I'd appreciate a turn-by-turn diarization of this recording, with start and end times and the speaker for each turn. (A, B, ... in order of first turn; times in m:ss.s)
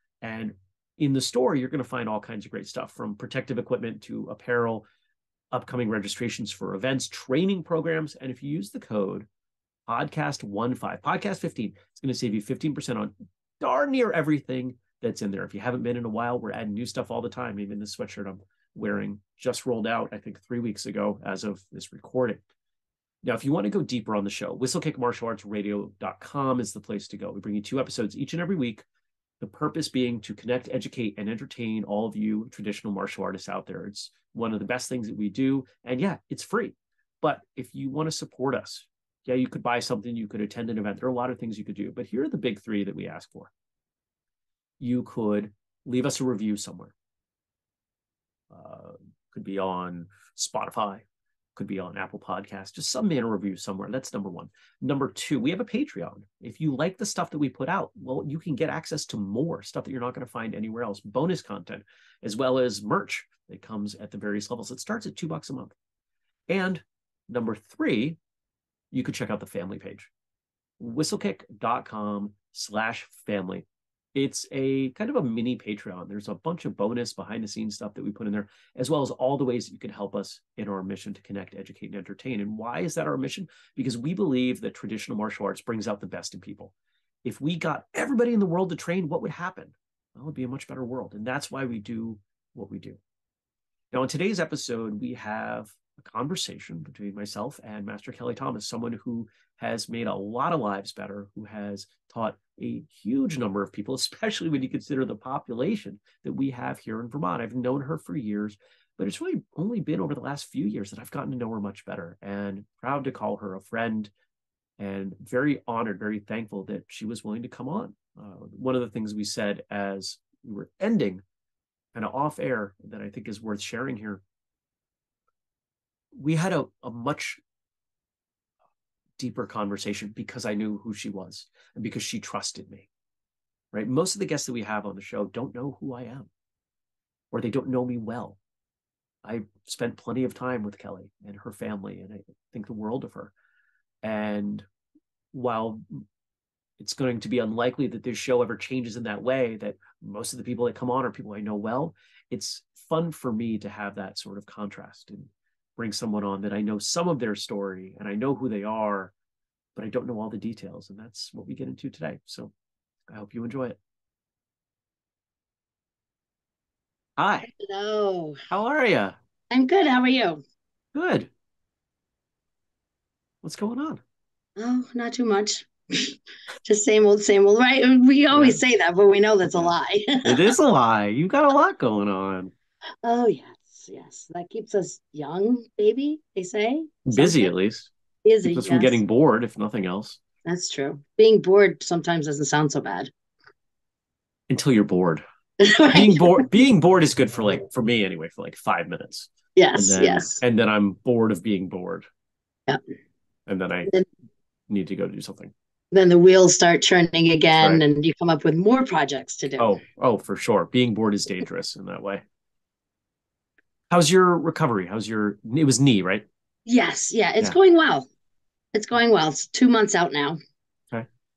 0:00.2-0:04.8 A
0:05.5-0:09.3 A
0:09.9-0:22.4 A
0:23.2-0:28.9 A
0:29.4-0:43.5 A
0:44.8-0:46.9 A
0:48.5-0:51.0 A
0:51.6-1:05.8 A
1:06.5-1:08.2 A
1:08.9-1:10.1 A
1:10.8-1:26.7 A
1:27.2-1:33.0 A
1:33.9-1:54.1 A
1:54.8-2:01.2 A
2:01.9-2:04.2 A
2:06.2-2:07.4 A
2:09.2-2:12.9 A
2:13.7-2:16.3 A
2:17.3-2:18.4 A
2:19.2-2:23.3 A
2:24.0-2:24.6 A
2:25.3-2:26.0 A
2:26.8-2:39.1 A
2:39.8-2:42.5 A
2:43.1-2:43.8 A
2:47.2-2:47.5 A
2:47.4-2:48.4 B
2:48.5-2:49.1 A
2:49.5-2:50.4 B
2:50.9-2:51.3 A
2:53.4-2:54.0 A
2:54.6-3:00.3 B
2:58.3-2:58.6 A
3:00.2-3:02.5 A
3:03.0-3:07.5 B
3:07.0-3:07.9 A
3:08.2-3:09.0 B
3:08.4-3:10.2 A
3:10.4-3:13.1 B
3:14.5-3:15.2 A
3:15.6-3:16.5 B
3:15.9-3:22.0 A
3:19.6-3:20.4 B
3:23.5-3:23.9 A
3:24.7-3:25.5 A
3:25.9-3:29.8 B
3:29.6-3:32.2 A
3:33.9-3:36.2 A
3:36.6-3:38.1 B
3:38.7-3:40.4 B